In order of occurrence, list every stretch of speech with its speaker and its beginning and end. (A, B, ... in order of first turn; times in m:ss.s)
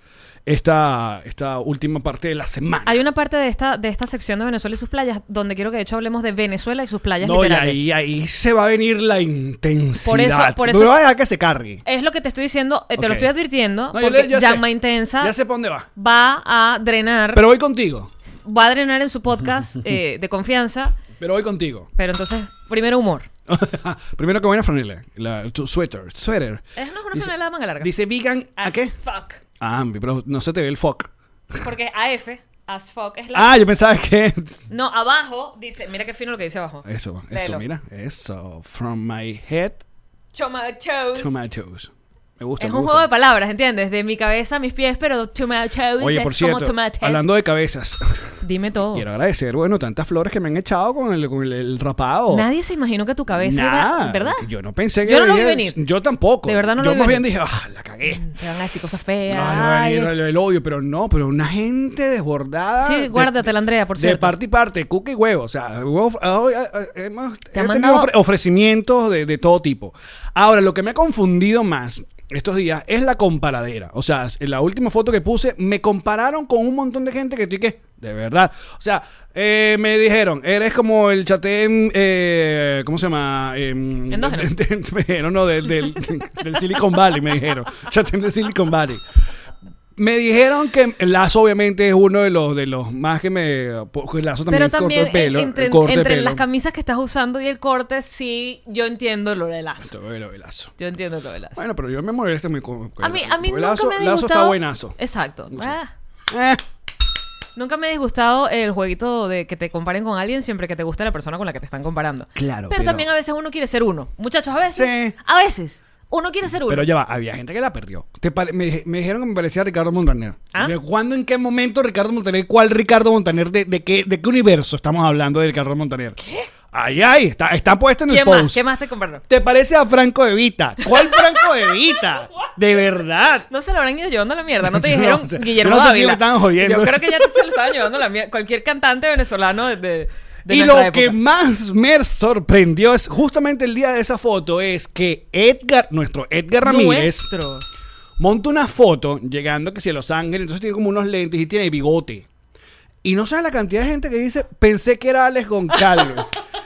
0:00.5-0:03.0 A
0:02.8-0:07.8 B
0:07.2-0:11.8 A
0:10.0-0:11.0 B
0:11.8-0:15.4 B
0:13.0-0:13.3 A
0:13.9-0:14.7 A
0:15.2-0:15.9 A
0:16.0-0:17.4 B
0:17.3-0:18.1 A
0:18.4-0:21.0 B
0:21.2-0:21.9 A
0:22.0-0:23.3 B
0:23.5-0:29.0 A
0:26.8-0:27.9 B
0:28.6-0:29.4 B
0:29.6-0:31.1 A
0:31.6-0:33.6 B
0:33.3-0:34.6 A
0:34.7-0:37.6 B
0:36.8-0:39.8 A
0:40.3-0:41.4 B
0:41.2-0:43.1 A
0:42.6-0:47.3 B
0:46.0-0:52.5 A
0:48.4-0:49.0 B
0:52.3-0:54.5 B
0:53.4-0:58.3 A
0:55.0-0:55.8 B
0:56.4-0:57.3 B
0:58.1-1:00.2 B
0:59.3-1:29.0 A
1:02.8-1:04.4 B
1:07.5-1:08.1 B
1:24.1-1:24.5 B
1:30.0-1:36.4 A
1:34.5-1:39.9 B
1:39.8-1:40.8 A
1:40.8-1:41.6 B
1:41.6-1:45.0 A
1:43.0-1:45.9 B
1:45.5-1:45.8 A
1:46.3-1:46.6 A
1:47.6-1:56.9 B
1:52.4-1:53.1 A
1:54.7-1:55.2 A
1:56.7-2:06.2 A
2:06.2-2:06.5 B
2:06.7-2:08.6 A
2:08.1-2:09.2 B
2:09.3-2:13.5 A
2:10.8-2:12.5 B
2:13.5-2:21.2 B
2:14.6-2:17.9 A
2:20.5-2:27.3 A
2:26.6-2:27.6 B
2:28.2-2:32.3 A
2:33.0-2:36.4 A
2:35.9-2:36.2 B